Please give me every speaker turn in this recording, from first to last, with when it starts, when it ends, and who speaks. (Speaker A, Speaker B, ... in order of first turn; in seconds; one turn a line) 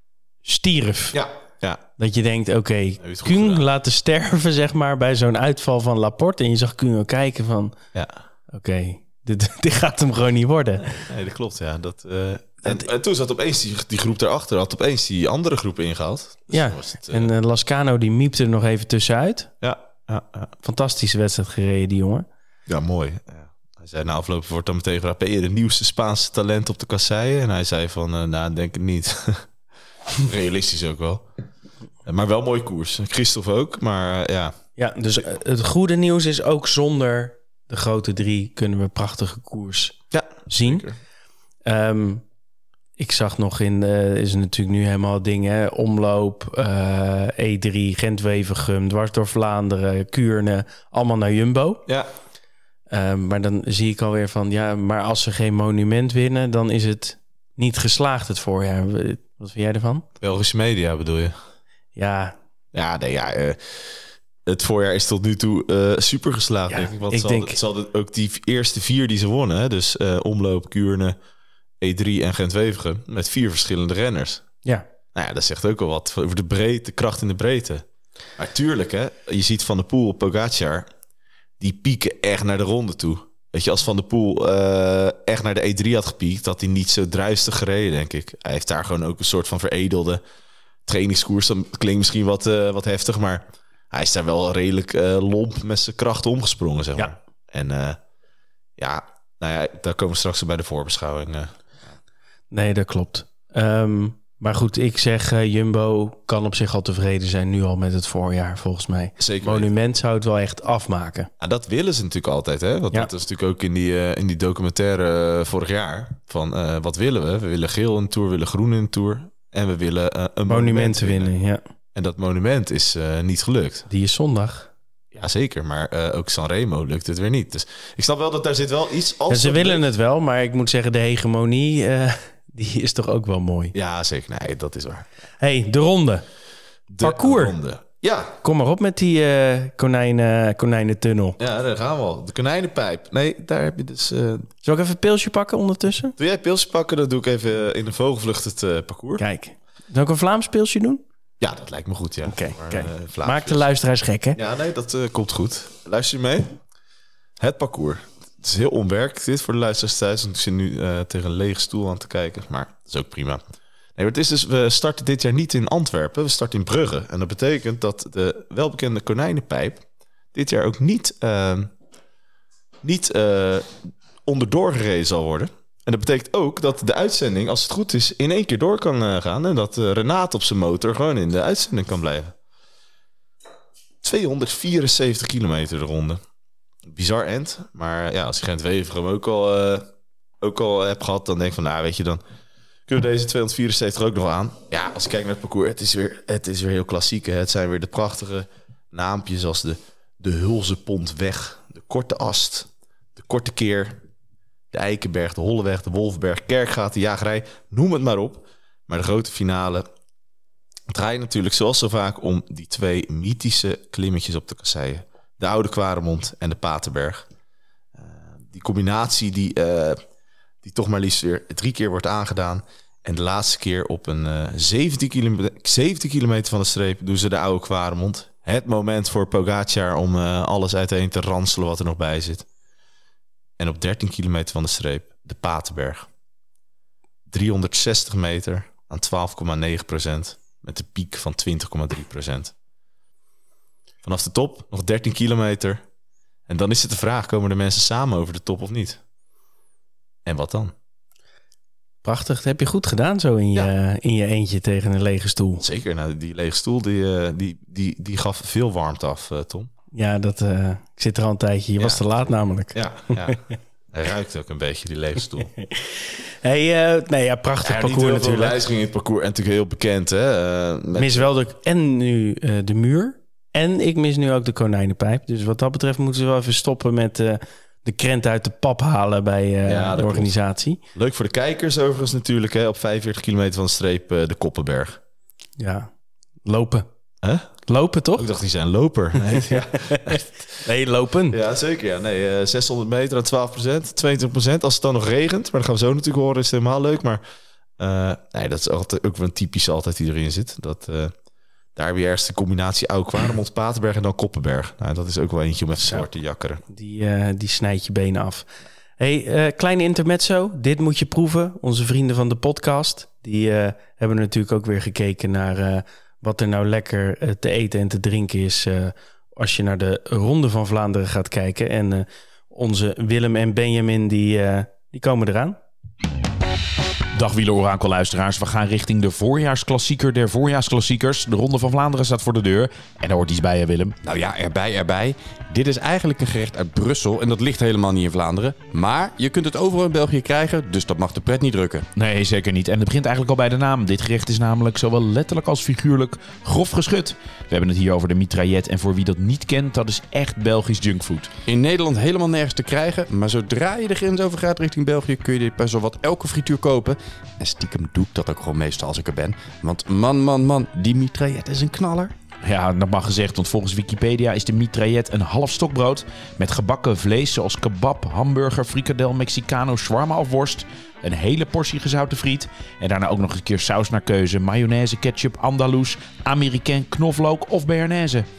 Speaker A: 0.4-1.2
Speaker B: 1.1-1.8
Speaker A: 2.0-7.7
Speaker B: 3.0-3.7
Speaker B: 7.9-8.2
Speaker A: 8.5-10.9
Speaker B: 10.8-17.3
Speaker A: 16.5-19.5
Speaker B: 19.6-20.5
Speaker A: 20.6-22.2
Speaker B: 22.7-29.5
Speaker B: 30.2-31.3
Speaker B: 32.0-34.5
Speaker A: 34.8-40.8
Speaker B: 40.1-41.0
Speaker A: 41.6-42.2
Speaker A: 43.0-51.8
Speaker A: 52.9-60.0
Speaker B: 60.2-61.3
Speaker A: 61.9-62.4
Speaker B: 62.7-71.2
Speaker A: 66.7-67.6
Speaker B: 71.8-74.4
Speaker B: 75.1-77.8
Speaker B: 78.4-80.9
Speaker B: 81.6-90.2
Speaker B: 90.8-98.0
Speaker B: 98.8-101.5
Speaker A: 102.5-111.3
Speaker B: 109.2-109.7
Speaker B: 111.4-121.3
Speaker A: 120.5-121.6
Speaker B: 121.9-123.8
Speaker A: 123.9-124.7
Speaker B: 125.1-129.9
Speaker A: 129.3-133.7
Speaker B: 133.7-135.1
Speaker A: 135.4-136.2
Speaker B: 136.9-138.4
Speaker A: 137.0-137.6
Speaker A: 138.4-141.4
Speaker B: 141.4-144.5
Speaker A: 144.6-146.2
Speaker B: 146.2-149.2
Speaker A: 149.2-151.0
Speaker B: 151.4-153.7
Speaker A: 152.2-154.4
Speaker B: 154.3-156.6
Speaker B: 157.4-163.4
Speaker B: 163.9-171.7
Speaker B: 172.8-182.3
Speaker B: 184.0-186.2
Speaker B: 186.9-189.9
Speaker B: 190.4-192.2
Speaker B: 192.9-204.0
Speaker B: 204.7-209.9
Speaker B: 210.9-217.3
Speaker B: 217.9-220.0
Speaker B: 220.6-232.4
Speaker B: 233.6-236.1
Speaker B: 237.3-242.5
Speaker B: 244.0-245.8
Speaker B: 246.5-249.0
Speaker B: 250.2-250.7
Speaker A: 252.0-255.6
Speaker B: 255.6-259.7
Speaker A: 259.9-263.3
Speaker B: 261.8-265.5
Speaker A: 265.6-268.6
Speaker B: 267.6-271.3
Speaker A: 271.0-280.8
Speaker B: 279.6-280.3
Speaker B: 280.9-285.0
Speaker A: 285.6-285.9
Speaker A: 286.4-286.9
Speaker B: 287.2-287.5
Speaker A: 287.7-288.2
Speaker B: 288.1-290.5
Speaker A: 289.2-291.4
Speaker B: 291.3-297.2
Speaker B: 297.8-301.1
Speaker B: 301.7-306.6
Speaker A: 305.8-306.1
Speaker A: 306.7-308.4
Speaker A: 309.0-325.6
Speaker C: 327.1-333.9
Speaker D: 334.0-341.9
Speaker C: 341.9-351.3
Speaker D: 351.4-362.1
Speaker C: 362.4-378.2